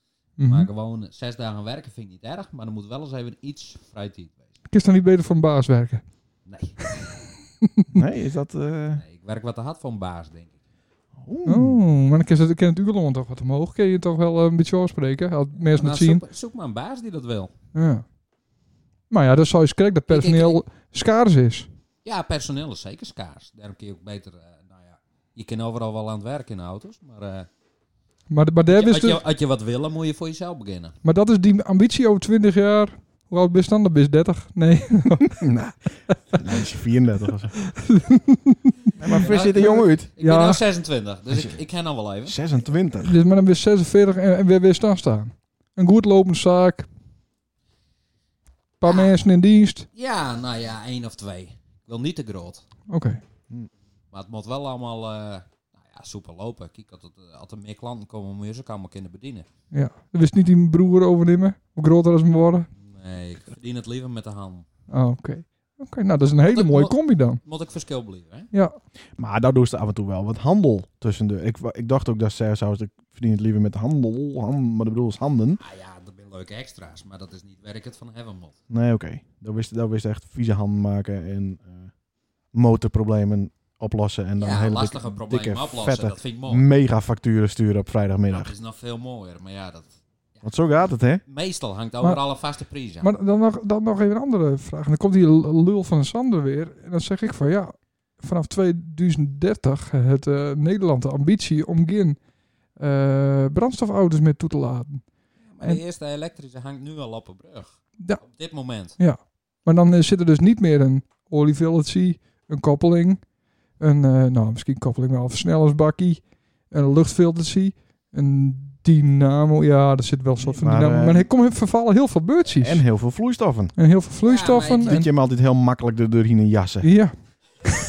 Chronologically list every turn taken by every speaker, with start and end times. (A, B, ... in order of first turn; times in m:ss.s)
0:00.4-0:00.7 A
0:00.4-0:04.6 B
0:04.7-0:06.1 A
0:06.4-0:07.3 B
0:07.9-0:09.0 C
0:08.9-0:10.6 B
0:11.2-0:11.8 C
0:11.5-0:16.2 A
0:15.6-0:17.5 B
0:17.7-0:18.1 A
0:19.1-0:21.7 A
0:20.1-0:20.6 B
0:22.0-0:27.5 B
0:28.3-0:29.2 A
0:28.7-0:31.0 B
0:31.0-0:35.4 A
0:35.4-0:37.7 C
0:37.8-0:39.2 A
0:39.0-0:40.1 C
0:39.2-0:42.4 B
0:40.2-0:40.6 A
0:41.3-0:41.6 C
0:42.2-0:43.2 C
0:43.0-0:46.9 A
0:48.8-0:49.9 A
0:48.8-0:49.1 B
0:49.9-0:52.7 B
0:52.9-0:53.2 A
0:54.1-0:59.5 B
0:59.7-1:02.7 A
1:02.8-1:04.7 B
1:04.9-1:07.4 A
1:06.4-1:08.5 B
1:08.5-1:08.8 A
1:09.2-1:15.6 C
1:15.6-1:18.6 B
1:18.7-1:22.0 C
1:22.5-1:28.5 C
1:24.4-1:26.6 B
1:28.3-1:33.1 B
1:30.4-1:31.2 C
1:33.0-1:45.8 A
1:45.4-1:49.0 B
1:48.0-2:02.9 A
2:00.4-2:01.3 C
2:02.6-2:03.8 C
2:03.8-2:05.1 A
2:04.2-2:05.0 B
2:04.8-2:07.0 C
2:06.8-2:07.2 A